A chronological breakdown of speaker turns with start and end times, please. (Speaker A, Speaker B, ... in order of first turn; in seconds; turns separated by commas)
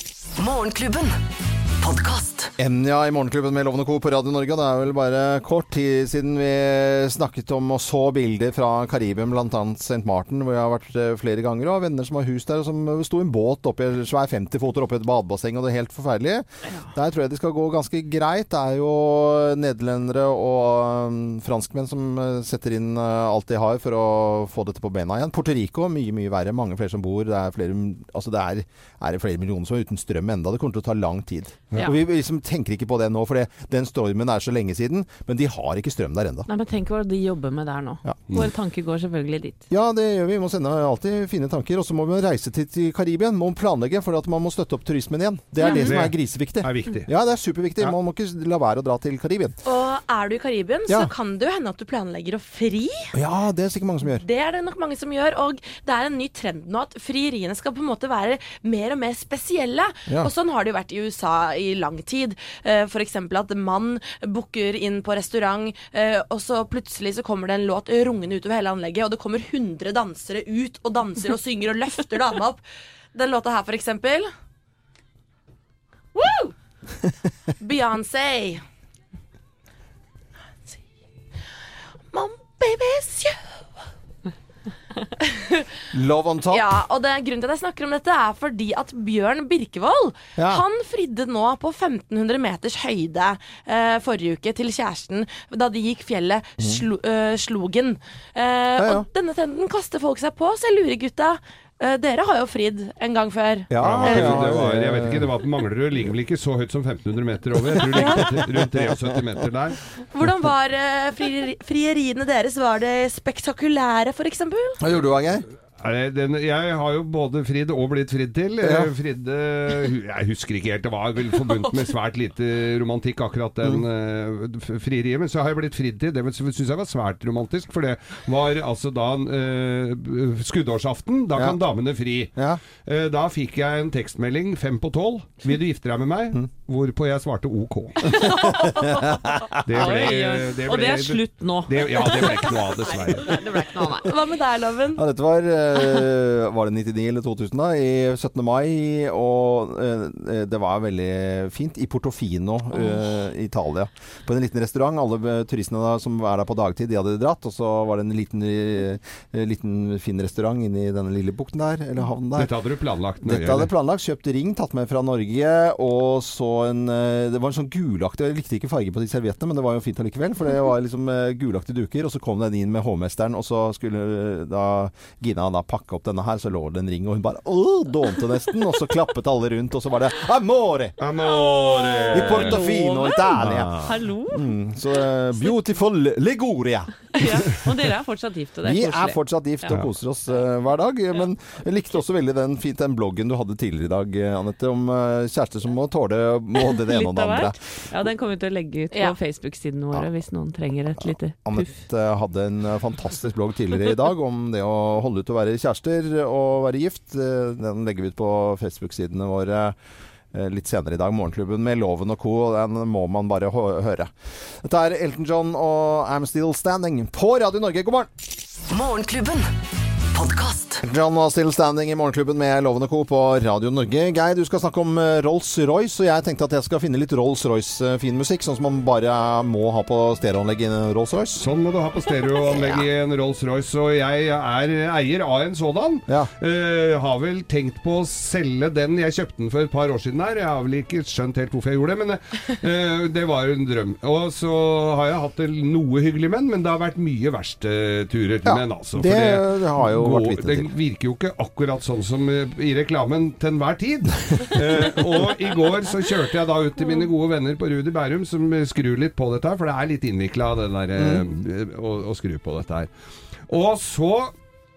Speaker A: 0.3-1.2, Speaker A: 1.8-2.5, Speaker B: 2.6-36.5, Speaker C: 36.5-39.6, Speaker B: 39.7-49.6, Speaker C: 45.6-45.9, Speaker D: 45.6-47.1, Speaker E: 49.6-53.1, Speaker B: 50.9-51.1, Speaker B: 53.1-54.2, Speaker E: 54.1-72.6, Speaker E: 73.1-74.3, Speaker E: 76.1-76.5, Speaker E: 77.6-78.6, Speaker E: 82.1-83.6, Speaker E: 85.2-85.8, Speaker B: 85.9-86.8, Speaker E: 86.5-104.5, Speaker B: 90.3-90.6, Speaker B: 96.6-96.8, Speaker B: 98.8-99.1, Speaker B: 103.7-105.3, Speaker D: 103.8-109.8, Speaker B: 107.7-109.4, Speaker E: 107.9-108.3, Speaker E: 110.1-114.8, Speaker B: 114.8-115.5, Speaker D: 115.8-138.2, Speaker B: 118.6-118.9, Speaker B: 132.3-132.6, Speaker B: 138.1-139.7, Speaker D: 139.6-143.3, Speaker C: 139.7-142.5, Speaker C: 143.2-144.1, Speaker E: 143.9-145.0, Speaker B: 144.9-162.5, Speaker D: 162.3-163.7, Speaker B: 163.2-181.0, Speaker D: 181.0-182.7, Speaker C: 182.1-184.5, Speaker B: 182.1-187.6, Speaker D: 183.4-183.9, Speaker C: 187.2-189.8, Speaker B: 188.6-197.6, Speaker C: 196.6-201.7, Speaker B: 201.0-209.8, Speaker B: 210.3-218.1, Speaker A: 218.7-219.5, Speaker A: 220.1-220.8, Speaker B: 220.8-231.5, Speaker D: 231.4-262.9, Speaker B: 248.4-250.7, Speaker B: 260.9-261.2, Speaker D: 263.5-264.3